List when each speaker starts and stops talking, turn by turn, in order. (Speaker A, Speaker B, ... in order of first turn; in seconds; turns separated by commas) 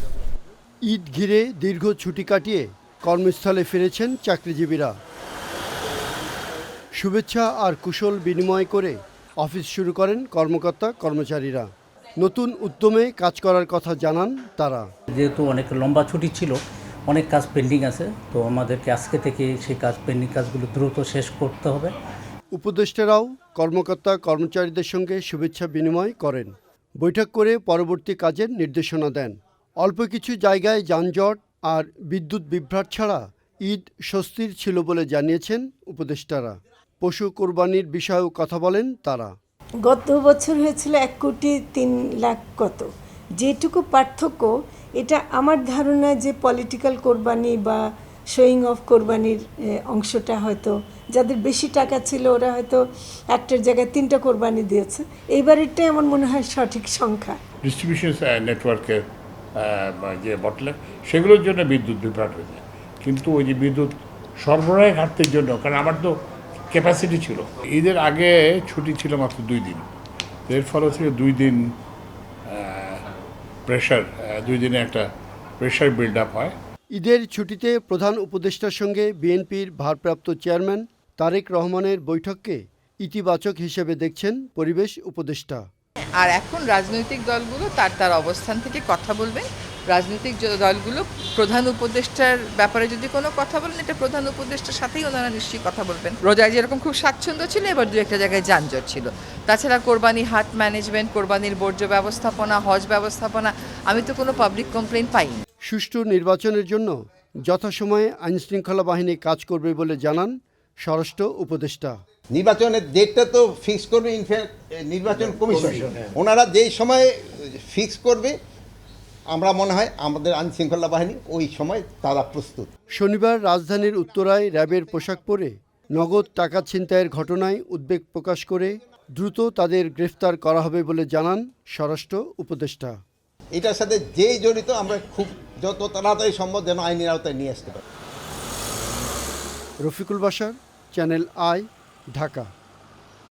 Speaker A: 0.8-4.9, Speaker A: 7.0-11.7, Speaker A: 12.2-14.9, Speaker B: 15.1-21.9, Speaker A: 22.5-39.3, Speaker C: 39.8-57.4, Speaker D: 57.6-59.0, Speaker D: 59.6-66.1, Speaker D: 66.7-69.8, Speaker D: 70.5-71.6, Speaker D: 72.5-73.0, Speaker D: 73.7-75.1, Speaker D: 75.6-76.5, Speaker A: 76.9-85.6, Speaker E: 86.2-105.4, Speaker A: 105.7-107.0, Speaker A: 107.5-112.0, Speaker F: 112.3-118.3, Speaker F: 119.3-122.7, Speaker A: 123.0-132.9, Speaker F: 133.5-137.8, Speaker A: 139.8-142.5